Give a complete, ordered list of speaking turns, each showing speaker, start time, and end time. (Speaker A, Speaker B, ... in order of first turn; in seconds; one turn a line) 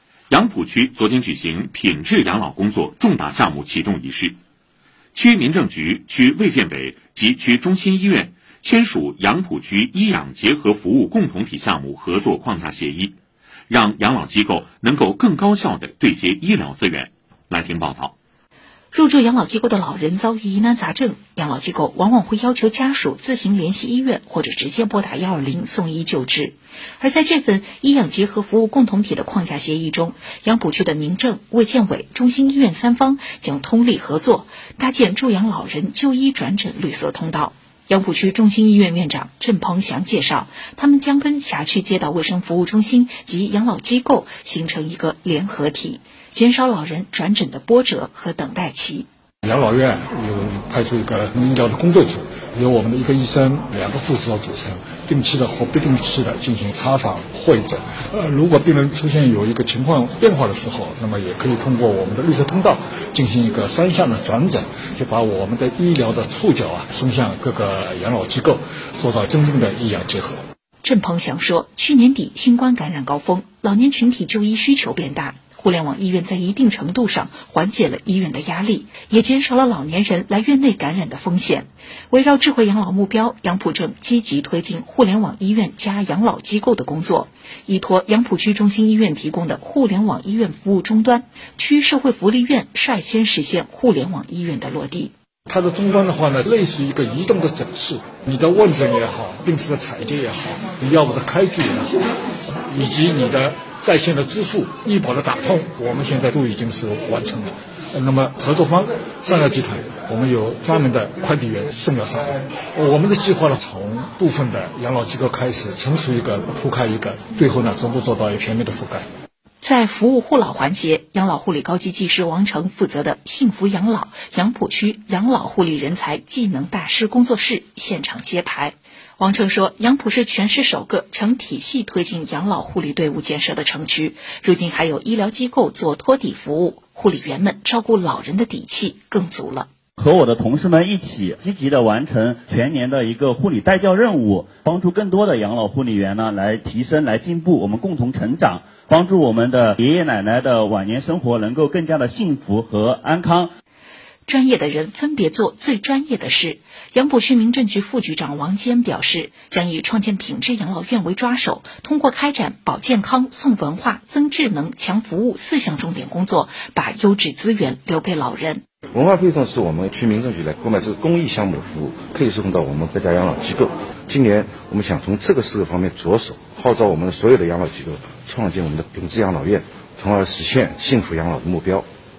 Speaker A: 0.3-4.3
Speaker A: 5.1-13.2
Speaker A: 13.7-18.1
Speaker B: 18.9-49.0
Speaker C: 49.4-70.4
Speaker B: 70.8-95.1
Speaker C: 95.5-102.0
Speaker C: 102.7-119.0
Speaker B: 119.6-139.7
Speaker D: 140.0-153.5
Speaker B: 154.3-168.6
Speaker E: 168.9-181.8